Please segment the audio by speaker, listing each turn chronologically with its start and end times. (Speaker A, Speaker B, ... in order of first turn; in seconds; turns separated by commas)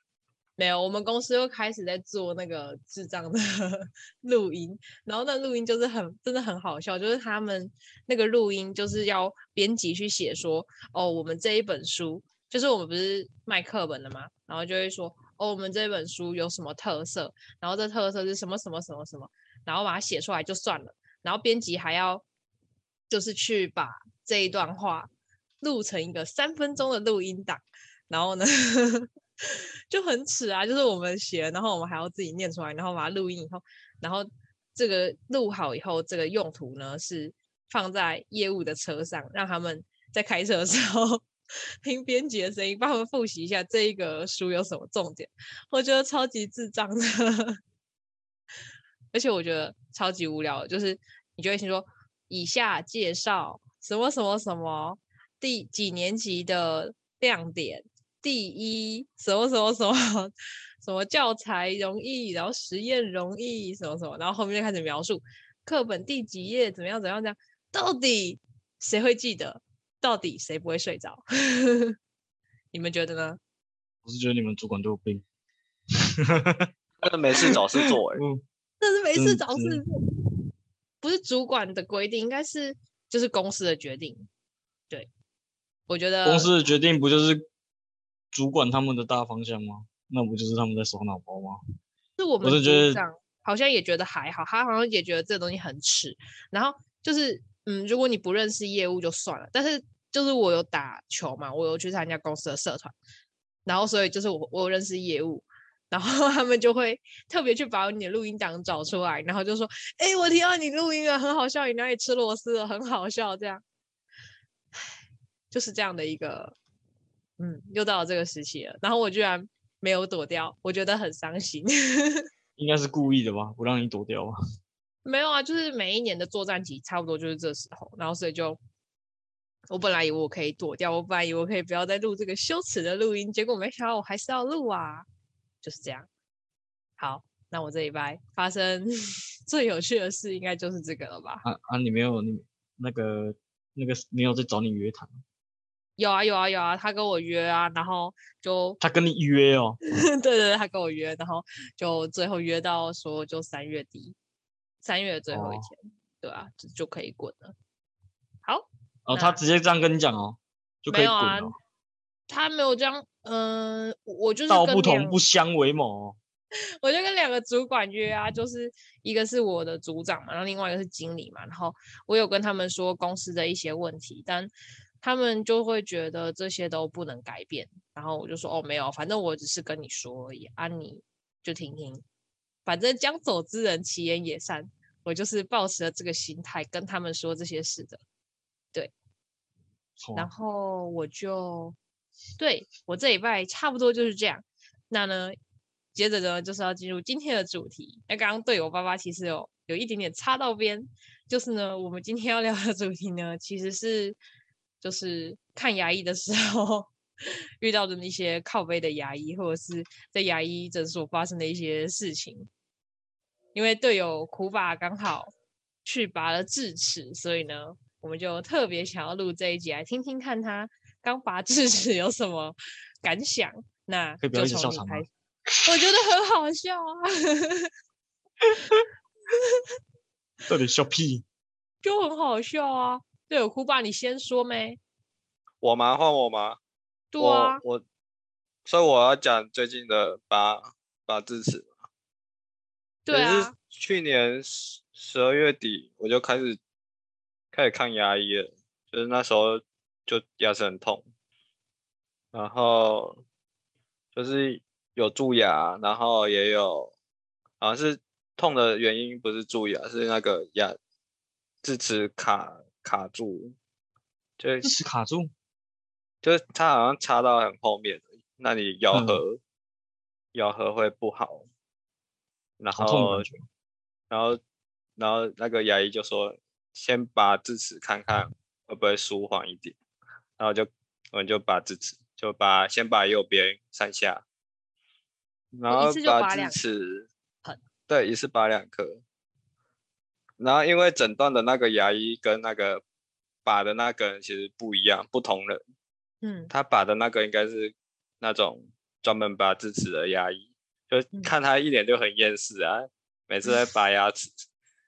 Speaker A: 0.6-22.2, Speaker A: 23.1-25.1, Speaker A: 25.6-41.2, Speaker A: 41.8-47.6, Speaker A: 49.1-72.0, Speaker A: 72.7-73.4, Speaker B: 74.0-75.2, Speaker B: 75.9-76.7, Speaker C: 77.0-78.2, Speaker B: 77.4-78.4, Speaker A: 78.8-79.8, Speaker B: 79.1-79.8, Speaker A: 81.0-84.2, Speaker A: 85.9-86.6, Speaker B: 86.2-87.5, Speaker B: 88.3-91.6, Speaker A: 92.2-102.9, Speaker B: 92.4-93.0, Speaker A: 103.7-113.6, Speaker A: 115.5-116.5, Speaker A: 117.4-122.2, Speaker B: 122.6-124.3, Speaker A: 125.0-128.6, Speaker A: 129.7-135.0, Speaker A: 135.6-136.1, Speaker A: 137.0-138.9, Speaker A: 139.4-141.4, Speaker B: 141.4-145.2, Speaker A: 146.0-148.8, Speaker B: 148.8-149.8, Speaker A: 149.9-154.2, Speaker A: 154.8-157.5, Speaker B: 155.3-155.7, Speaker A: 158.4-159.4, Speaker B: 159.1-161.5, Speaker A: 160.9-161.5, Speaker A: 162.3-165.2, Speaker B: 164.5-166.2, Speaker A: 166.8-174.5, Speaker A: 175.0-182.0, Speaker A: 182.6-188.0, Speaker B: 190.0-190.3, Speaker A: 190.1-191.8, Speaker A: 192.4-195.3, Speaker A: 195.9-204.2, Speaker A: 204.8-206.9, Speaker A: 207.6-212.5, Speaker A: 213.5-215.3, Speaker A: 215.8-225.1, Speaker B: 224.2-225.1, Speaker A: 225.6-227.7, Speaker B: 230.5-231.2, Speaker A: 231.8-234.8, Speaker C: 235.6-236.6, Speaker A: 237.1-237.6, Speaker C: 237.2-237.8, Speaker C: 238.7-241.7, Speaker A: 243.1-243.5, Speaker C: 243.1-246.6, Speaker C: 247.5-251.0, Speaker C: 252.3-253.2, Speaker C: 254.1-256.9, Speaker C: 257.6-260.8, Speaker C: 261.6-263.6, Speaker C: 264.4-264.7, Speaker B: 264.6-265.3, Speaker C: 266.2-269.4, Speaker B: 268.9-269.2, Speaker C: 270.3-271.4, Speaker C: 272.6-273.2, Speaker B: 272.7-273.4, Speaker C: 274.1-274.4, Speaker C: 275.0-279.8, Speaker C: 280.4-284.2, Speaker C: 285.5-287.1, Speaker A: 285.7-286.6, Speaker C: 287.9-289.0, Speaker C: 290.4-292.8, Speaker C: 293.4-295.6, Speaker A: 296.2-296.5, Speaker C: 296.5-304.3